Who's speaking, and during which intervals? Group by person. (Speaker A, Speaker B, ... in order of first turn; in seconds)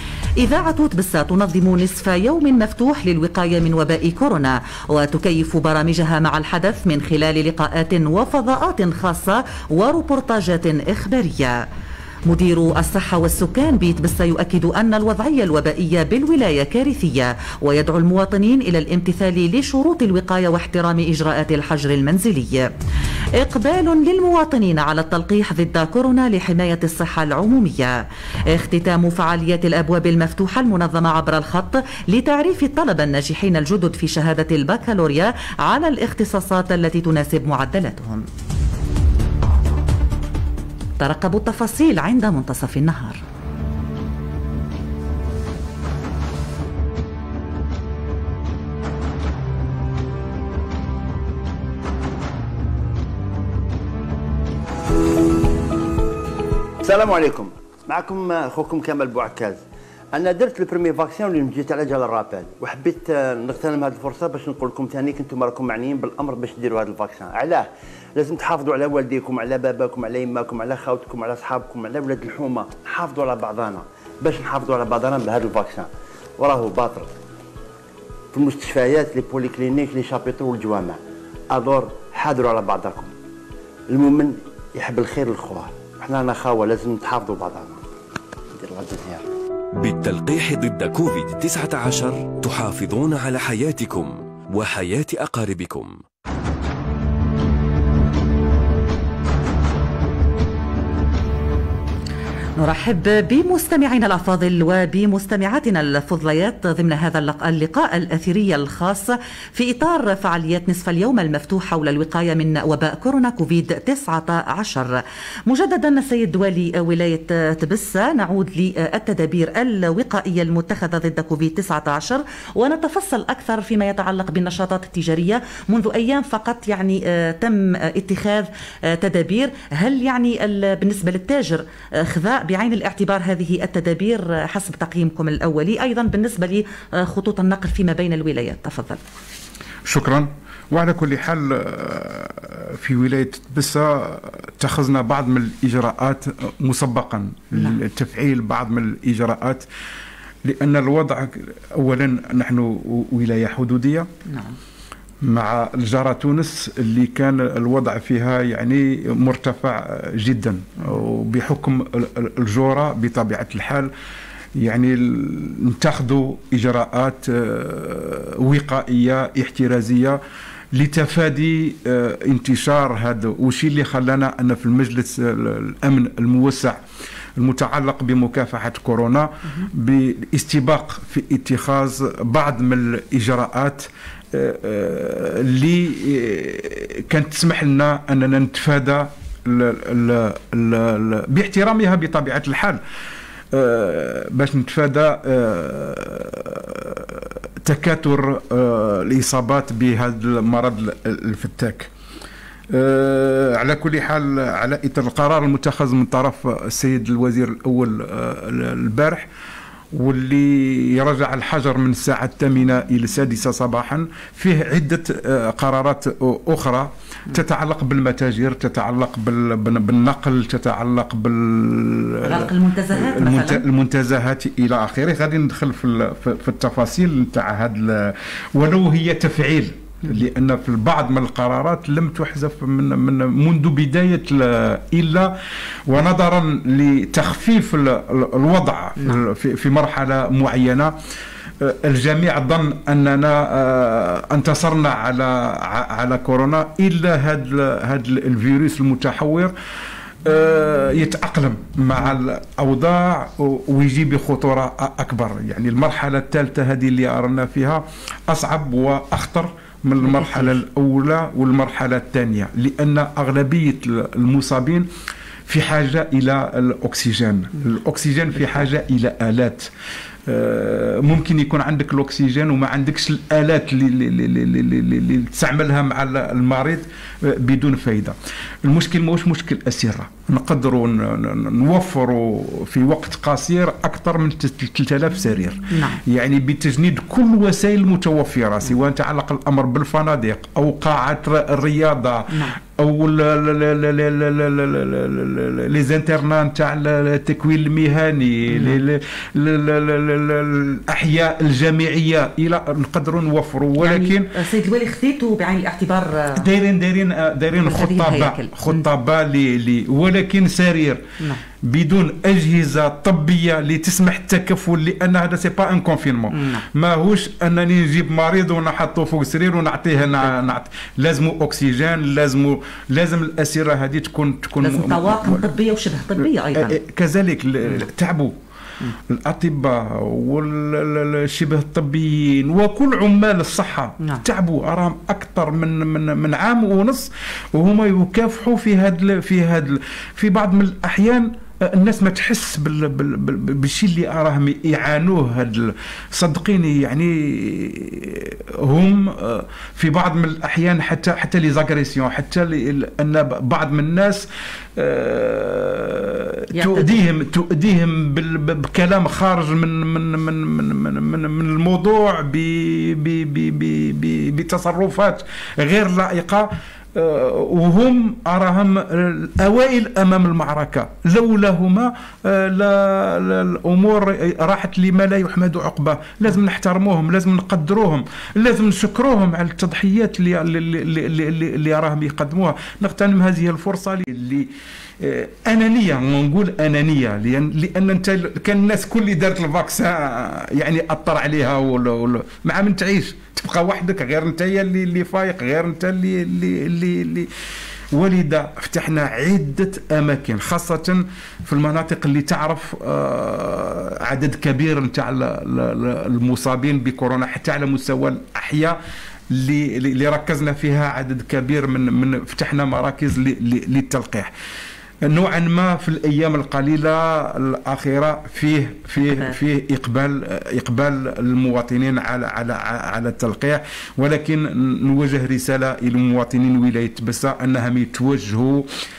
Speaker A: 0.4-11.5, 12.3-22.6, 23.4-27.9, 28.5-38.2, 41.0-43.2, 102.6-139.0, 147.5-147.8, 154.3-154.6, 222.2-223.6, 260.0-260.6, 285.7-286.0, 292.3-292.6, 298.5-298.8, 303.8-306.5, 307.6-308.8, 316.3-316.6, 324.6-326.8, 356.5-357.0, 419.0-419.3
Speaker B: 56.8-59.6, 60.1-77.1, 78.3-81.0, 81.5-83.1, 83.9-87.8, 88.6-89.2
Speaker C: 89.8-96.0
Speaker D: 139.8-149.7, 150.4-154.1, 155.2-163.9, 164.6-170.2, 170.7-176.8, 177.4-192.8, 193.5-201.9, 202.7-209.3, 209.9-240.9, 241.6-249.5, 250.2-264.9, 265.5-269.7, 270.2-304.3, 306.4-311.0, 311.6-325.5, 326.6-328.3, 329.1-384.5, 385.0-397.3, 397.9-408.8, 409.3-414.3, 415.0-428.7